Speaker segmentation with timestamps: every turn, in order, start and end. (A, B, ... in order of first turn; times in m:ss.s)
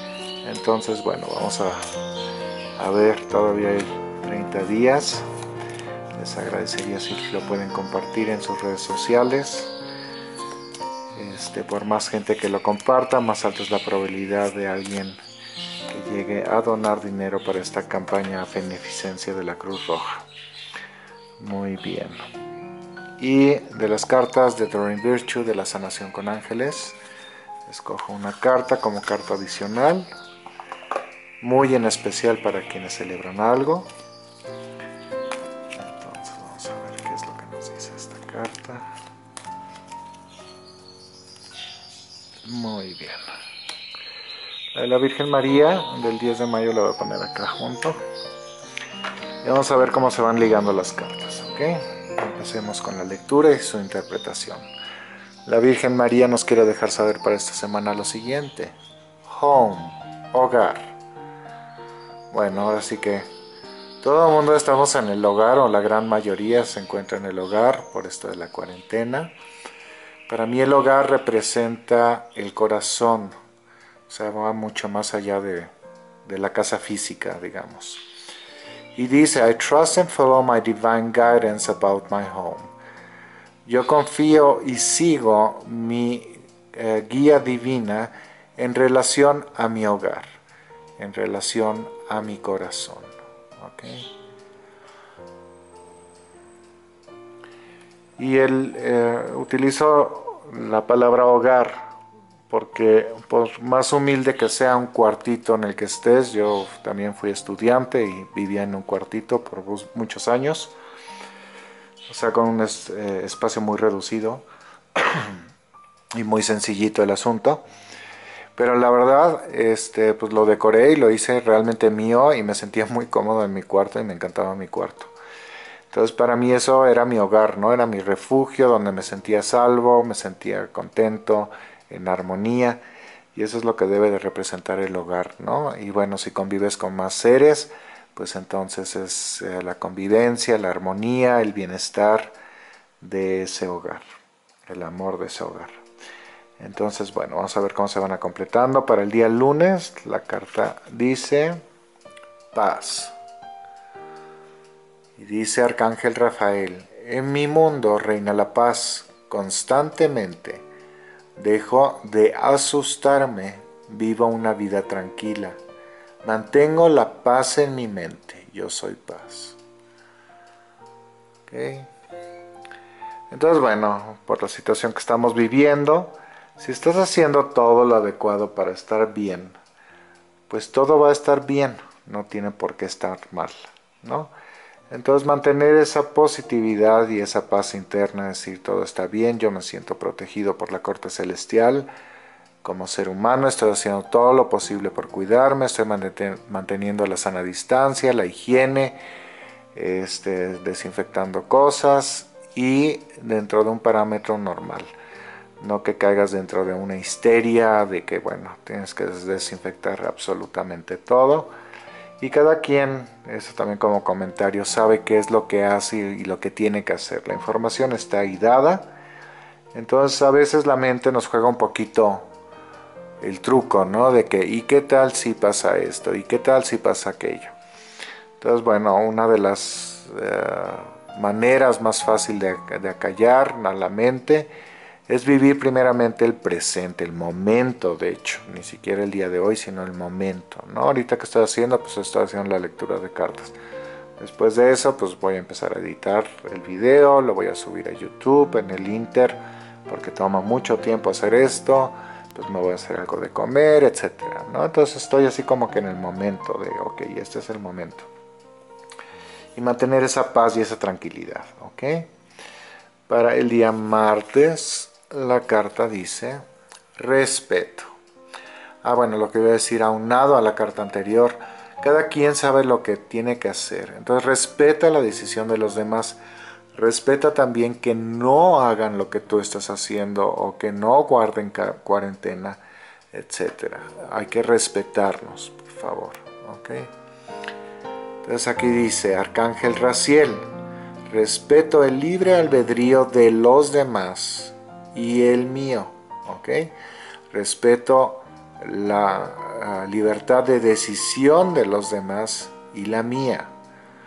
0:00.4-0:01.8 A
0:02.8-0:05.3 A
0:06.1-0:09.7 A
0:11.1-0:15.2 A
0:15.9-0:20.2 A
0:21.4-0:22.2 A
0:23.2-0:27.0 A
0:27.6-0:30.1 A
0:31.4-0:33.9 A
0:35.7-0:38.8 A
0:42.4-0:43.3 A
0:44.7-0:48.0 A
0:49.4-0:54.7 A
0:55.4-1:01.0 A
1:02.3-1:03.3 A
1:04.0-1:09.3 A
1:10.3-1:13.3 A
1:14.1-1:15.7 A
1:16.2-1:18.0 A
1:19.0-1:22.7 A
1:23.6-1:30.4 A
1:31.0-1:34.1 A
1:38.2-1:41.9 A
1:42.5-1:50.7 A
1:52.1-1:54.4 A
1:55.0-1:55.4 A
1:56.1-1:57.6 A
1:58.6-2:05.1 A
2:05.9-2:12.8 A
2:13.3-2:22.3 A
2:23.0-2:24.0 A
2:24.7-2:25.8 A
2:26.6-2:31.6 A
2:32.5-2:33.1 A
2:35.2-2:40.6 A
2:41.4-2:45.6 A
2:46.2-2:49.6 A
2:51.5-2:51.9 A
2:53.3-2:59.6 A
3:00.5-3:04.3 A
3:04.9-3:11.9 A
3:12.6-3:19.0 A
3:19.7-3:24.9 A
3:25.6-3:31.5 A
3:32.2-3:38.9 A
3:39.7-3:42.3 A
3:43.2-3:47.5 A
3:48.4-3:54.5 A
3:55.1-4:03.5 A
4:04.2-4:18.1 A
4:19.6-4:22.1 A
4:23.1-4:26.4 A
4:27.0-4:27.9 A
4:28.8-4:36.2 A
4:36.7-4:42.6 A
4:43.1-4:46.9 A
4:48.2-4:50.5 A
4:51.1-4:56.7 A
4:57.3-5:03.5 A